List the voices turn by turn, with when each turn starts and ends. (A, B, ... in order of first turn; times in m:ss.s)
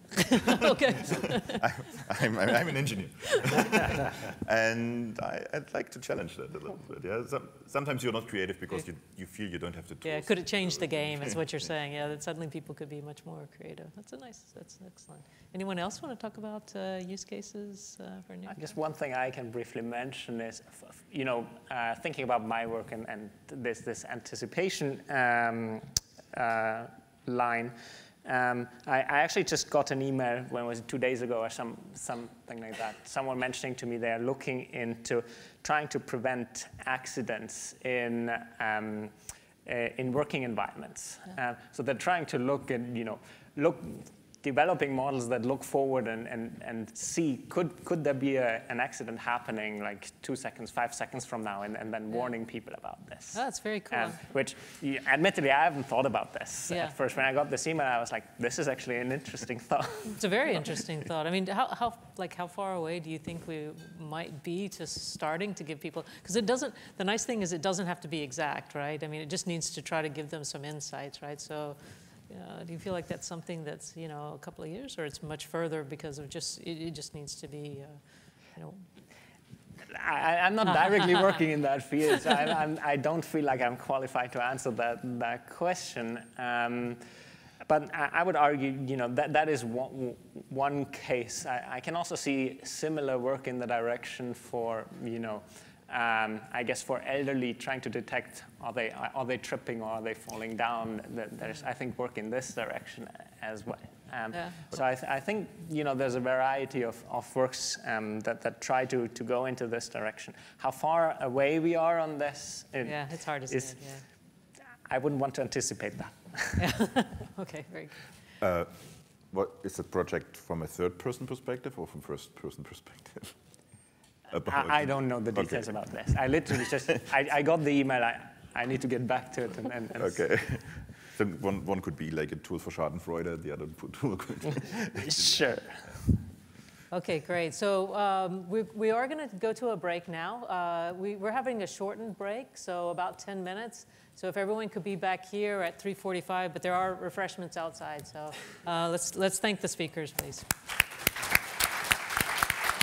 0:00.2-0:01.7 A
0:00.5-0:11.4 B
0:03.3-0:03.6 A
0:10.0-0:18.7 A
0:18.5-1:00.6 C
0:53.3-0:54.2 A
0:56.7-0:57.0 A
1:00.2-1:18.0 A
1:18.5-1:18.9 A
1:19.9-1:27.0 C
1:27.6-1:53.8 C
1:44.3-1:44.6 A
1:52.8-1:54.0 A
1:54.9-1:56.6 C
1:56.6-1:58.0 A
1:58.4-2:03.4 B
2:04.3-2:05.7 B
2:04.4-2:10.2 C
2:06.5-2:07.0 B
2:10.0-2:15.4 B
2:15.0-2:16.0 C
2:16.9-2:30.5 A